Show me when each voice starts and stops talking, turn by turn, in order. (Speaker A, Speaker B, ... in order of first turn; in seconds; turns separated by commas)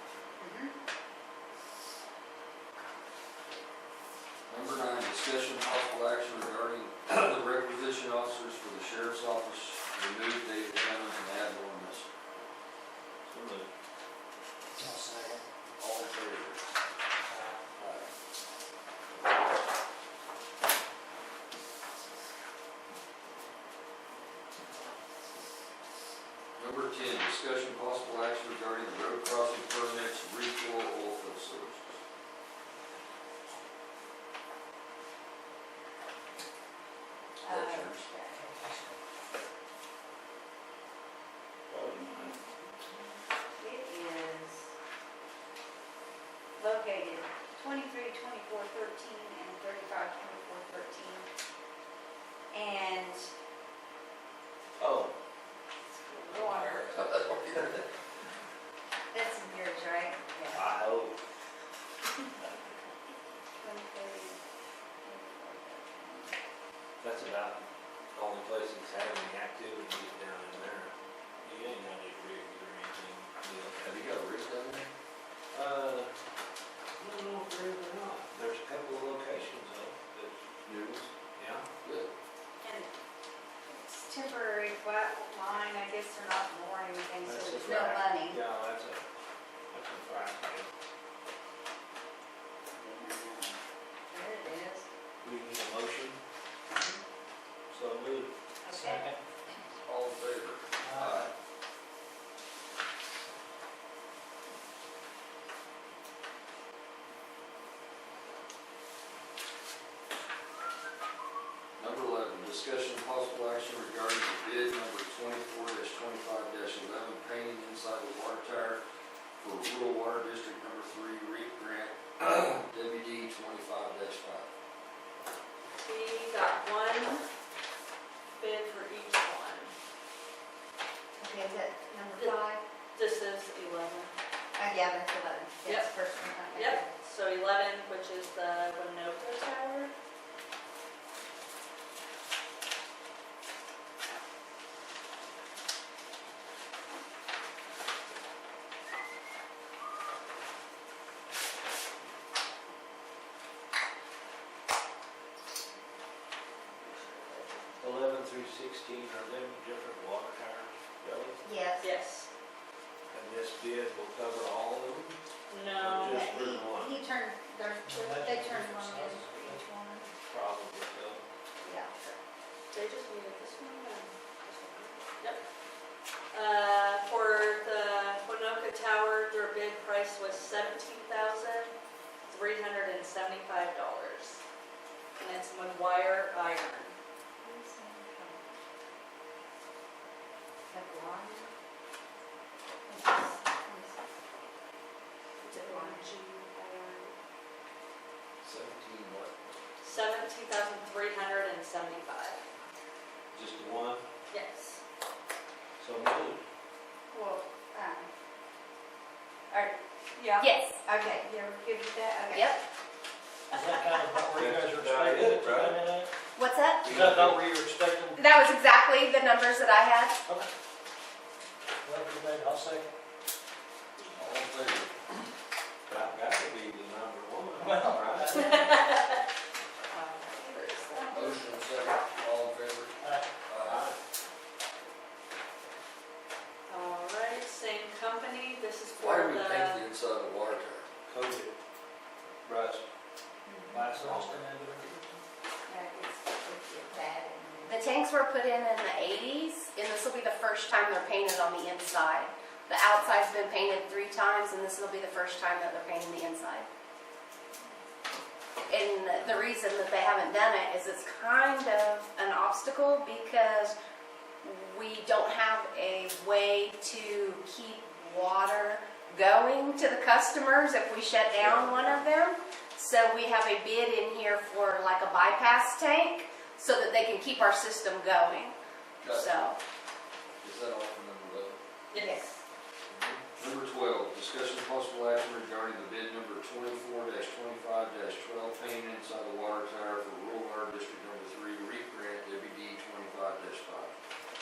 Speaker A: 0.4-0.8, Speaker B: 4.5-12.1, Speaker C: 13.3-13.7, Speaker D: 14.8-15.4, Speaker B: 15.8-16.6, Speaker D: 17.3-17.6, Speaker B: 17.8-18.1, Speaker B: 26.6-32.0, Speaker B: 37.4-38.0, Speaker A: 37.4-38.5, Speaker C: 41.7-43.1, Speaker A: 41.9-42.4, Speaker A: 43.6-44.7, Speaker A: 46.5-51.3, Speaker A: 52.5-53.3, Speaker C: 54.8-55.1, Speaker E: 55.9-56.9, Speaker B: 56.3-57.9, Speaker A: 59.1-60.6, Speaker C: 60.5-61.2, Speaker A: 63.6-64.4, Speaker A: 65.0-66.4, Speaker C: 67.0-73.9, Speaker B: 73.8-74.9, Speaker C: 75.5-76.1, Speaker C: 77.0-80.5, Speaker B: 80.7-81.1, Speaker C: 81.4-81.7, Speaker B: 81.8-82.1, Speaker A: 82.6-82.9, Speaker A: 83.7-88.4, Speaker C: 87.2-89.0, Speaker C: 89.7-90.7, Speaker A: 92.8-93.6, Speaker A: 94.1-94.9, Speaker C: 95.2-96.2, Speaker C: 97.7-98.3, Speaker A: 98.6-99.1, Speaker D: 98.7-99.2, Speaker B: 99.8-101.3, Speaker D: 100.8-101.2, Speaker B: 111.8-118.8, Speaker B: 119.4-124.5, Speaker E: 125.8-127.3, Speaker E: 128.3-129.7, Speaker A: 131.2-132.6, Speaker E: 132.9-134.1, Speaker A: 134.6-136.9, Speaker E: 135.7-136.0, Speaker E: 136.5-139.9, Speaker E: 156.8-157.6, Speaker C: 157.8-161.4, Speaker A: 161.4-161.9, Speaker E: 161.8-162.3, Speaker C: 163.1-165.2, Speaker E: 165.5-166.3, Speaker C: 165.8-167.0, Speaker A: 166.1-170.1, Speaker D: 167.8-170.0, Speaker C: 170.2-171.2, Speaker A: 171.6-172.2, Speaker E: 172.7-175.4, Speaker E: 176.3-181.8, Speaker E: 182.3-184.4, Speaker E: 185.2-187.0, Speaker A: 187.4-188.5, Speaker A: 190.7-191.5, Speaker E: 192.9-193.4, Speaker A: 192.9-194.1, Speaker E: 195.4-197.1, Speaker A: 195.6-196.1, Speaker B: 198.4-199.6, Speaker E: 199.8-202.4, Speaker C: 203.3-204.0, Speaker E: 204.3-204.8, Speaker C: 205.8-206.4, Speaker A: 207.1-208.1, Speaker A: 209.5-212.5, Speaker F: 210.4-210.8, Speaker F: 212.3-212.6, Speaker D: 213.5-216.1, Speaker C: 214.3-215.8, Speaker F: 216.4-216.9, Speaker C: 216.8-217.4, Speaker D: 216.9-218.2, Speaker F: 218.2-220.2, Speaker D: 221.8-222.9, Speaker B: 224.1-224.9, Speaker C: 225.9-228.5, Speaker D: 227.6-228.8, Speaker E: 228.3-229.2, Speaker E: 229.9-231.3, Speaker B: 231.1-233.9, Speaker C: 233.6-234.0, Speaker E: 236.7-239.8, Speaker B: 239.0-240.9, Speaker C: 241.1-241.5, Speaker C: 242.4-242.8, Speaker A: 243.5-243.8, Speaker D: 243.7-245.2, Speaker C: 243.7-244.4, Speaker A: 245.7-247.8, Speaker F: 247.7-256.7, Speaker F: 258.7-263.8, Speaker F: 264.4-278.6, Speaker B: 271.4-272.1, Speaker B: 279.0-279.3, Speaker F: 279.1-279.6, Speaker B: 280.4-281.6, Speaker E: 281.9-282.2, Speaker A: 282.0-282.3, Speaker B: 282.9-293.9